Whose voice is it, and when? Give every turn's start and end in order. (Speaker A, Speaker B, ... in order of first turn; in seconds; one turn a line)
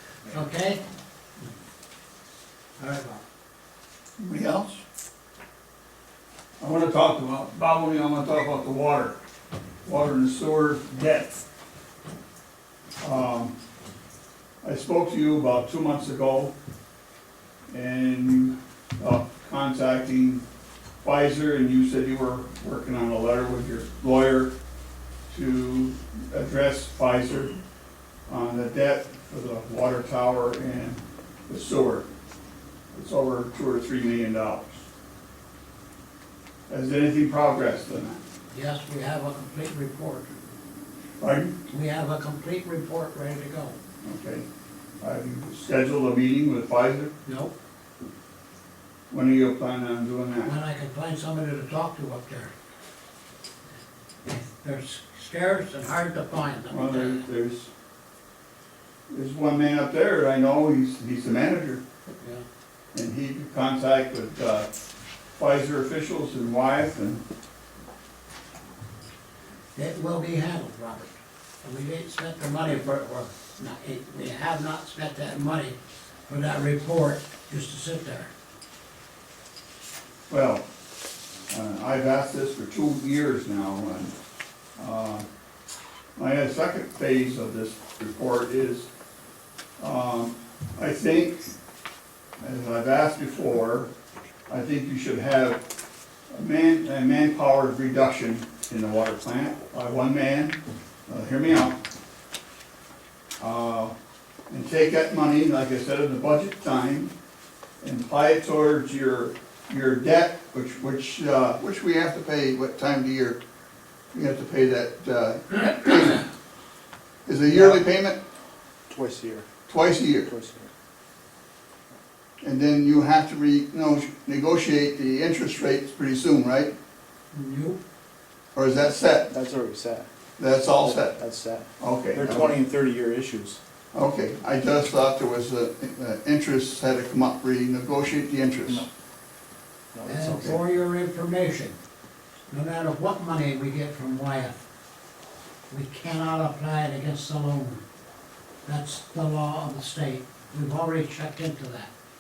Speaker A: 0.3-0.8
Speaker A: 2.8-3.2
Speaker B: 4.2-4.8
Speaker B: 6.6-9.2
Speaker B: 9.8-11.4
Speaker B: 13.0-13.5
Speaker B: 14.6-16.5
Speaker B: 17.7-20.4
Speaker B: 21.0-24.5
Speaker B: 25.3-27.5
Speaker B: 28.3-32.1
Speaker B: 32.9-34.9
Speaker B: 36.7-38.2
Speaker A: 38.5-40.3
Speaker B: 41.2-41.5
Speaker A: 41.7-43.8
Speaker B: 44.0-44.5
Speaker B: 45.0-47.1
Speaker A: 47.2-47.5
Speaker B: 49.1-50.5
Speaker A: 50.4-52.5
Speaker A: 54.3-57.2
Speaker B: 56.7-57.7
Speaker B: 59.1-61.8
Speaker B: 62.9-64.7
Speaker B: 65.3-67.2
Speaker A: 69.8-75.8
Speaker A: 76.3-78.3
Speaker B: 80.3-80.7
Speaker B: 81.5-84.1
Speaker B: 84.8-85.3
Speaker B: 86.2-88.9
Speaker B: 89.8-91.4
Speaker B: 92.4-93.9
Speaker B: 94.5-95.6
Speaker B: 96.3-101.8
Speaker B: 103.4-103.9
Speaker B: 104.5-107.1
Speaker B: 107.8-113.4
Speaker B: 114.1-116.3
Speaker B: 117.3-118.2
Speaker C: 117.5-117.8
Speaker C: 118.9-119.5
Speaker B: 119.7-120.3
Speaker C: 120.2-120.7
Speaker B: 122.4-126.7
Speaker A: 127.3-127.8
Speaker B: 128.6-129.3
Speaker C: 129.3-130.1
Speaker B: 130.4-131.2
Speaker C: 130.8-133.6
Speaker B: 131.8-132.6
Speaker B: 133.9-138.9
Speaker C: 139.9-140.6
Speaker A: 140.1-141.8
Speaker B: 140.2-140.6
Speaker A: 142.5-144.6
Speaker A: 145.7-147.8
Speaker A: 148.7-151.9